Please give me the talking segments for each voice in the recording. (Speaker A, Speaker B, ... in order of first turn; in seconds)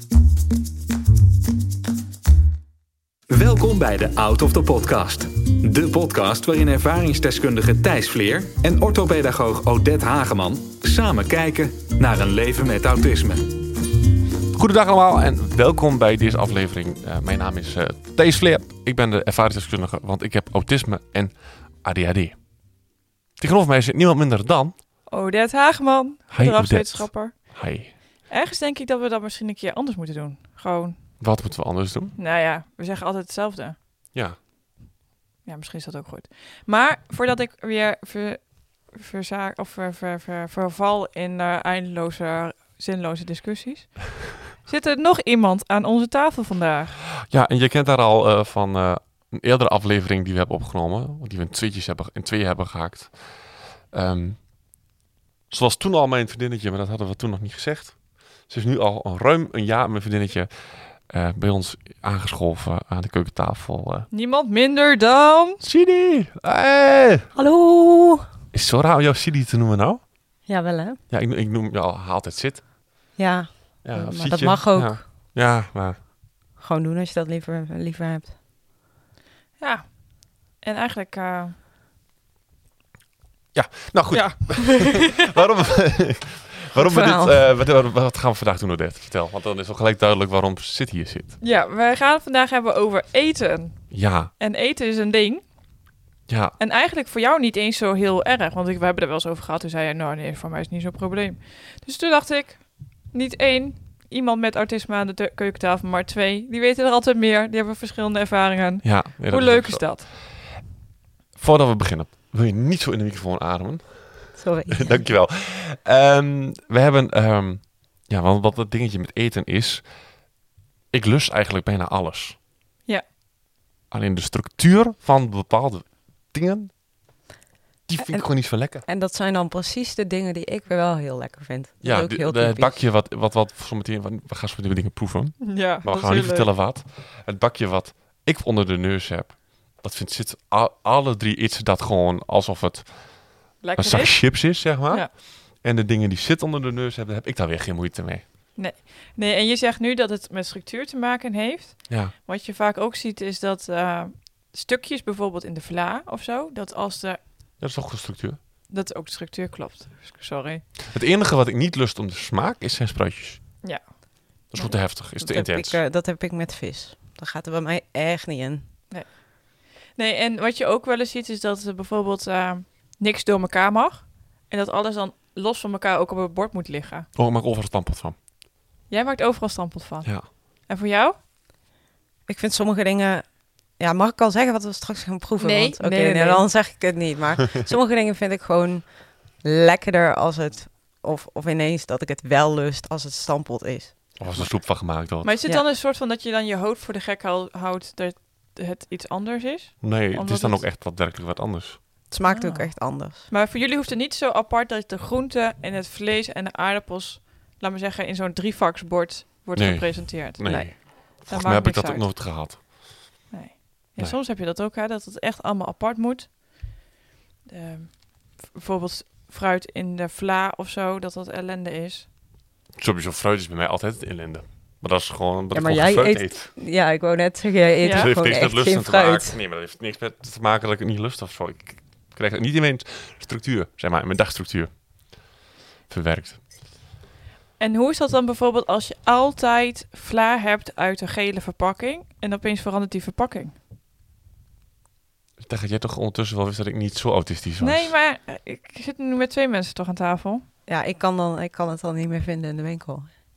Speaker A: 3.3-13.6
Speaker B: 14.5-22.6, 23.4-24.8, 26.3-27.9, 31.2-32.1, 47.3-54.5, 55.5-64.1, 65.6-67.3, 68.5-70.0, 71.1-72.6, 73.8-76.0, 83.5-91.4, 93.9-94.3, 96.3-96.6, 108.8-110.4, 111.4-119.9, 120.9-122.4, 123.9-126.7, 127.9-128.8, 131.8-148.2, 151.9-152.1, 157.6-158.4, 160.9-163.6, 164.5-165.8, 177.2-178.2, 194.2-195.3, 199.8-201.8, 209.6-212.6, 222.8-226.5, 227.9-235.2, 235.9-236.4, 245.4-247.9
Speaker C: 25.1-31.0, 32.2-33.8, 35.5-47.0, 64.1-65.6, 79.6-81.6, 84.1-85.1, 91.4-95.4, 96.6-110.1, 135.4-136.5, 143.6-145.1, 148.6-157.2, 158.7-160.7, 163.6-164.7, 168.9-177.1, 178.9-181.2, 185.4-186.5, 195.2-200.7, 202.3-212.1, 213.3-216.7, 217.5-222.1, 227.8-228.1, 237.6-243.6, 247.6-250.4
Speaker D: 67.3-68.3, 70.5-71.0, 73.2-75.0, 76.6-78.4, 86.8-87.4, 114.4-115.1, 128.1-132.8, 165.2-168.7, 182.3-194.2, 202.1-203.3, 225.5-229.4, 250.7-253.2